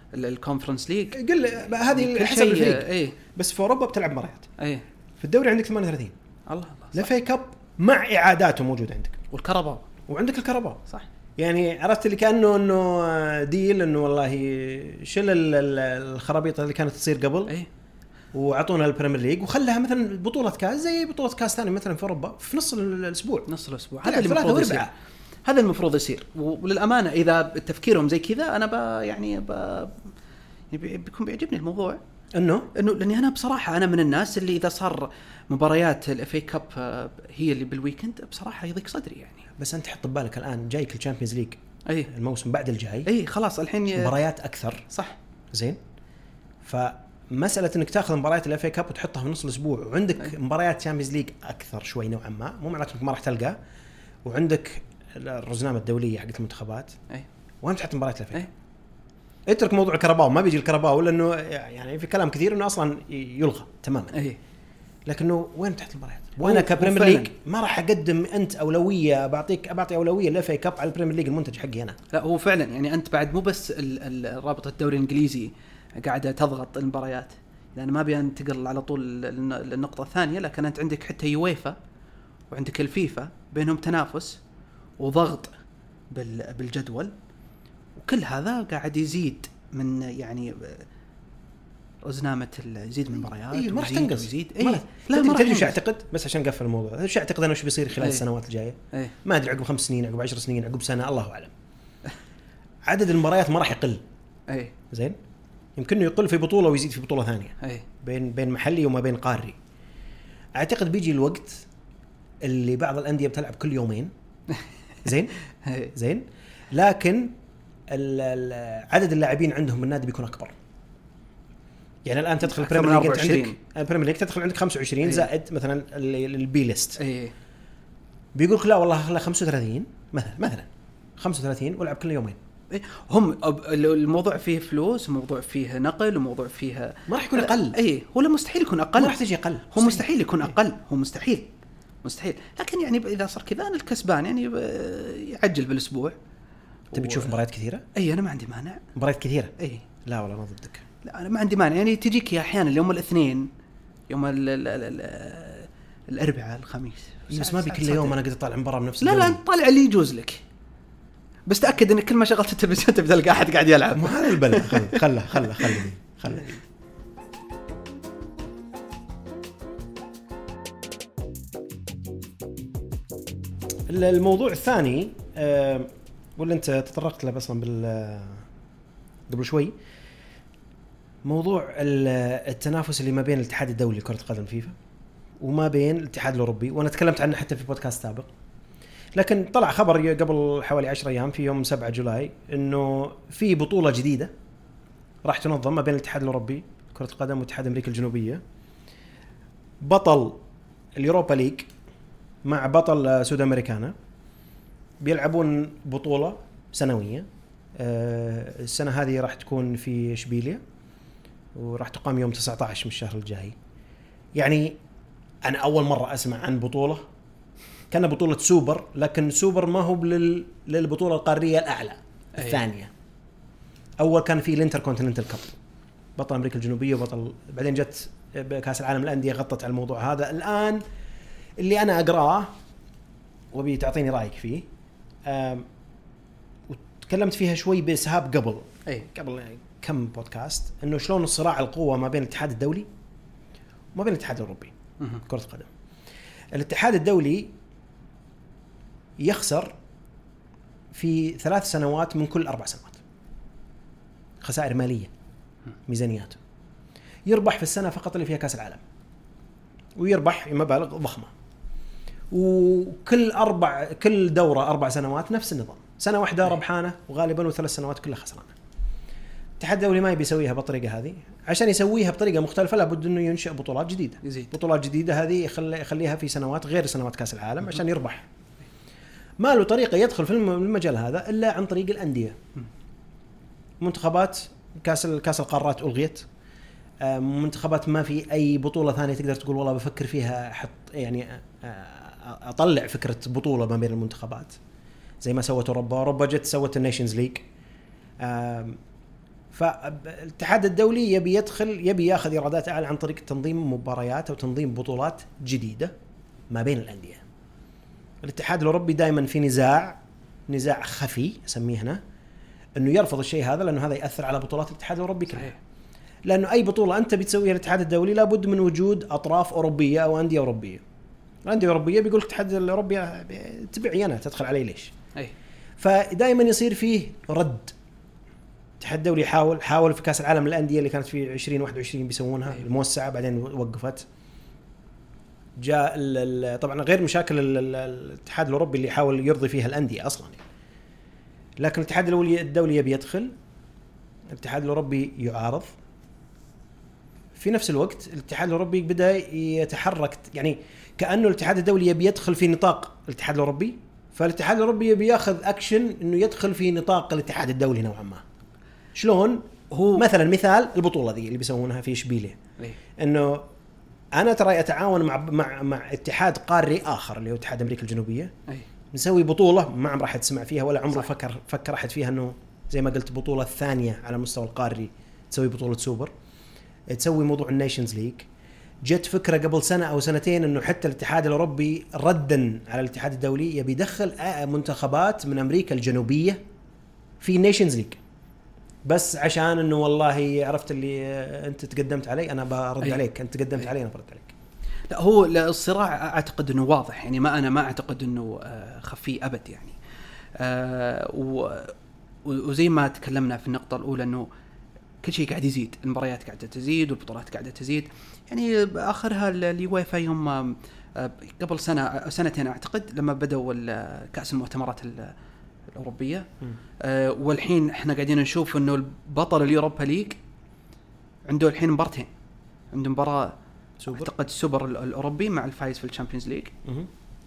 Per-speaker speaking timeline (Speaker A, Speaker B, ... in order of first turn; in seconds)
Speaker A: 0.1-1.2, 1.8-3.2, 4.6-4.8, 6.5-7.1, 9.3-9.8, 23.5-24.9, 25.4-30.1, 30.7-32.0, 32.7-39.5, 43.0-44.1, 44.9-45.1, 64.1-64.4, 66.4-67.3, 72.1-81.8, 82.5-84.4, 85.0-85.5, 86.1-87.1, 88.0-90.8, 92.0-95.8, 98.0-98.2, 104.5-104.7, 107.6-107.8, 115.6-115.9, 122.4-123.5, 127.0-127.3, 132.7-139.2, 139.7-141.5, 142.0-146.1, 146.9-147.3, 147.9-148.8, 149.6-149.8, 151.0-153.5, 154.1-158.2, 159.0-160.4, 161.5-165.8, 222.4-222.6, 274.2-274.5, 315.3-315.6, 359.7-360.0, 394.9-399.8, 400.4-404.3, 405.0-415.1, 415.7-416.3, 416.8-420.2, 421.2-422.1, 422.7-423.3, 423.9-426.5
Speaker B: 1.1-4.5, 5.2-6.1, 6.9-9.2, 10.1-10.8, 11.4-17.5, 18.3-23.5, 24.0-24.9, 32.4-32.7, 39.6-43.1, 43.9-44.9, 45.5-45.8, 46.6-53.5, 54.2-57.0, 57.6-58.5, 59.5-64.2, 65.0-72.0, 93.5-101.5, 102.8-104.0, 104.9-105.2, 105.8-109.6, 110.6-111.6, 112.4-114.1, 115.0-115.3, 115.9-117.3, 117.9-120.5, 122.0-127.0, 128.3-132.4, 137.1-137.8, 139.0-140.1, 146.9-147.8, 148.9-149.5, 150.1-150.8, 157.3-159.4, 163.9-166.5, 173.9-178.4, 179.3-179.7, 181.2-184.7, 185.4-188.3, 189.1-194.3, 195.2-198.4, 199.8-200.4, 201.0-201.7, 202.4-203.9, 205.0-210.6, 211.5-213.6, 214.3-214.8, 215.4-217.0, 217.9-222.9, 224.0-225.6, 226.2-230.8, 231.6-232.5, 233.5-234.7, 235.2-235.7, 236.7-242.9, 243.9-244.7, 245.2-245.7, 246.5-247.5, 249.2-249.7, 250.9-253.0, 254.4-255.1, 255.9-256.4, 257.3-258.8, 260.0-261.3, 262.3-268.5, 269.6-278.3, 279.4-282.4, 283.8-286.3, 287.0-294.6, 295.2-297.4, 298.2-298.8, 299.5-305.9, 306.5-307.2, 308.2-312.0, 312.8-315.5, 316.3-320.8, 321.4-324.9, 325.8-327.7, 328.8-334.1, 335.6-340.4, 341.6-343.3, 344.3-345.7, 347.4-358.2, 358.9-362.4, 363.0-363.4, 364.1-368.3, 368.9-376.1, 376.9-378.3, 378.9-386.4, 387.2-388.0, 388.9-394.3, 423.8-424.1